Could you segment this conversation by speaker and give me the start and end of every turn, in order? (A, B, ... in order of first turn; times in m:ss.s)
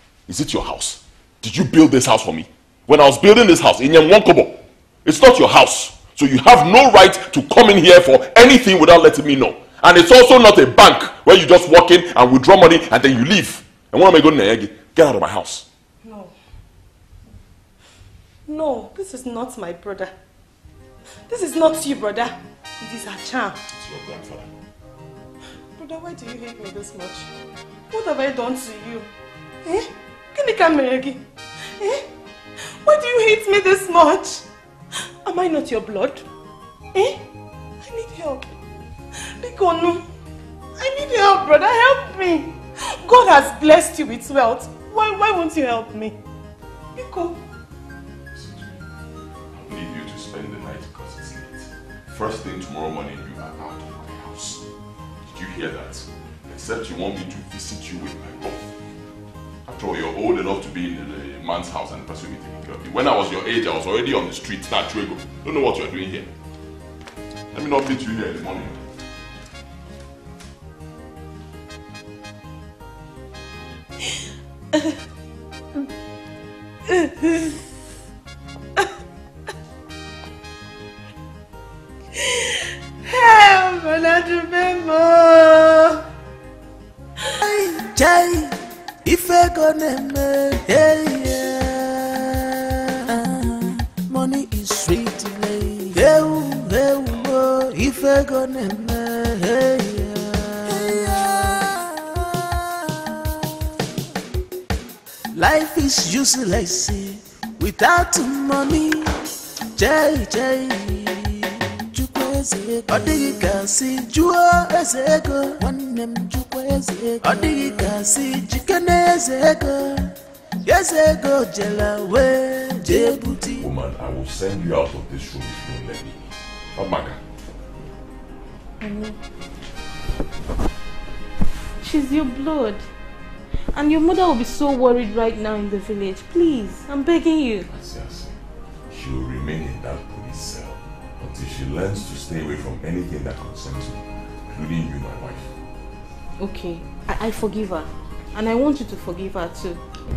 0:00.3-0:15.6 A
0:16.0-0:16.3 B
0:18.5-0:20.1 B
0:21.1-0:23.6 B
0:23.7-0:24.5 A
0:25.6-0:27.3 B
0:27.9-0:29.1 B
0:29.6-0:32.0 B
0:32.6-0:34.4 B
0:35.0-0:36.2 B
0:36.9-0:37.2 B
0:37.8-0:38.5 B
0:39.2-0:40.1 B
0:40.8-0:46.2 B
0:47.0-0:47.4 B
0:48.3-0:48.8 A
0:49.5-0:54.6 A
0:55.2-0:58.7 A
0:59.7-1:06.3 A
1:07.5-1:08.8 A
1:16.9-1:17.6 B
1:22.2-1:26.0 B
1:27.4-1:42.4 C
1:45.3-1:49.1 C
1:49.8-2:00.1 C
2:00.6-2:03.7 C
2:03.6-2:07.2 A
2:08.8-2:09.2 D
2:11.8-2:12.9 D
2:13.6-2:17.7 D
2:17.7-2:18.4 A
2:18.9-2:25.5 A
2:26.4-2:29.8 D